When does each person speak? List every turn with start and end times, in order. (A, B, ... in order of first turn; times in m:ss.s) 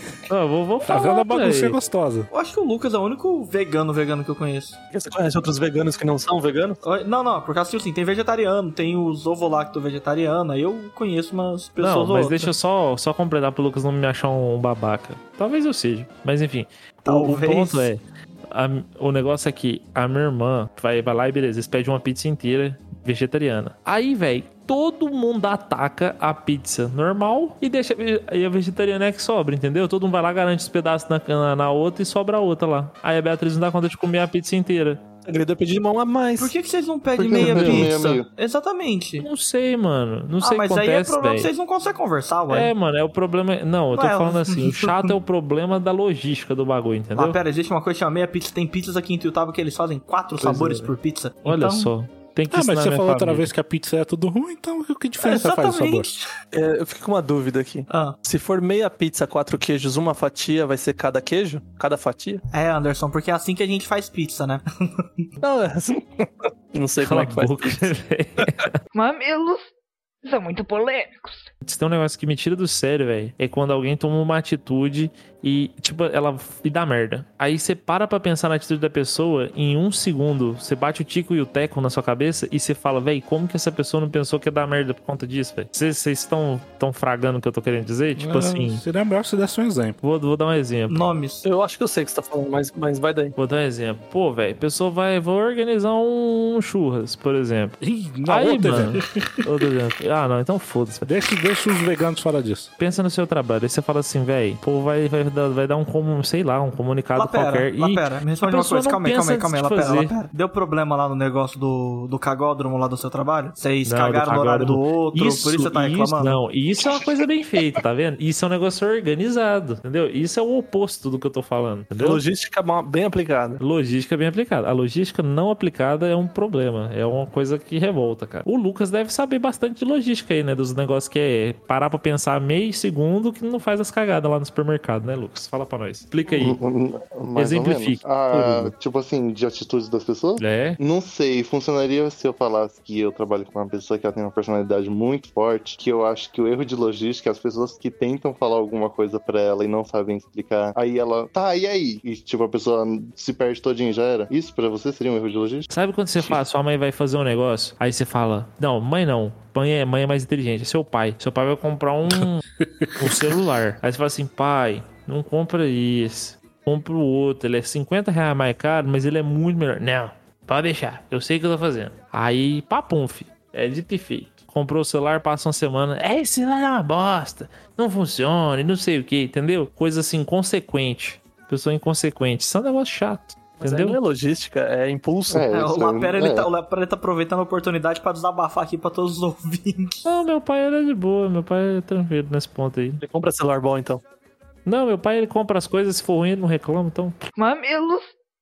0:00.3-0:01.8 A
0:00.9-0:02.3 B
0:02.3-0:04.8 C
0:04.9-0:06.8 D
0:06.8-0:12.5 C
0:11.8-0:35.0 A
0:17.0-0:17.9 C
0:35.2-0:36.5 D
0:36.4-0:39.3 C
0:37.2-0:38.3 E
0:37.4-0:37.9 A
0:39.2-0:41.5 A
0:40.4-0:42.7 C
0:42.5-0:47.4 A
0:43.9-0:45.1 C
0:47.1-0:51.9 C
0:50.4-0:50.9 A
0:51.4-0:53.5 A
0:52.5-0:56.1 B
0:55.2-0:56.3 C
0:56.5-1:02.4 D
0:57.9-0:58.2 C
1:02.5-1:05.3 C
1:05.4-1:07.9 D
1:07.0-1:08.8 A
1:08.9-1:09.7 F
1:10.2-1:11.5 F
1:11.6-1:28.8 A
1:28.2-1:30.0 B
1:30.0-1:31.0 A
1:30.9-1:31.4 C
1:31.4-1:33.4 D
1:33.4-1:41.1 A
1:37.8-1:39.0 B
1:41.0-1:42.7 B
1:42.8-1:50.1 A
1:47.2-1:56.4 C
1:53.8-2:02.2 A
2:02.0-2:03.6 D
2:03.6-2:16.6 A
2:16.3-2:35.7 E
2:17.4-2:18.7 A
2:20.4-2:20.8 A
2:35.7-2:42.4 A
2:42.8-2:43.3 B
2:43.0-3:04.0 A
3:03.6-3:05.5 D
3:05.3-3:06.5 E
3:05.5-3:10.0 C
3:10.0-3:13.0 A
3:13.0-3:14.0 D
3:14.7-3:17.2 A
3:17.4-3:18.1 F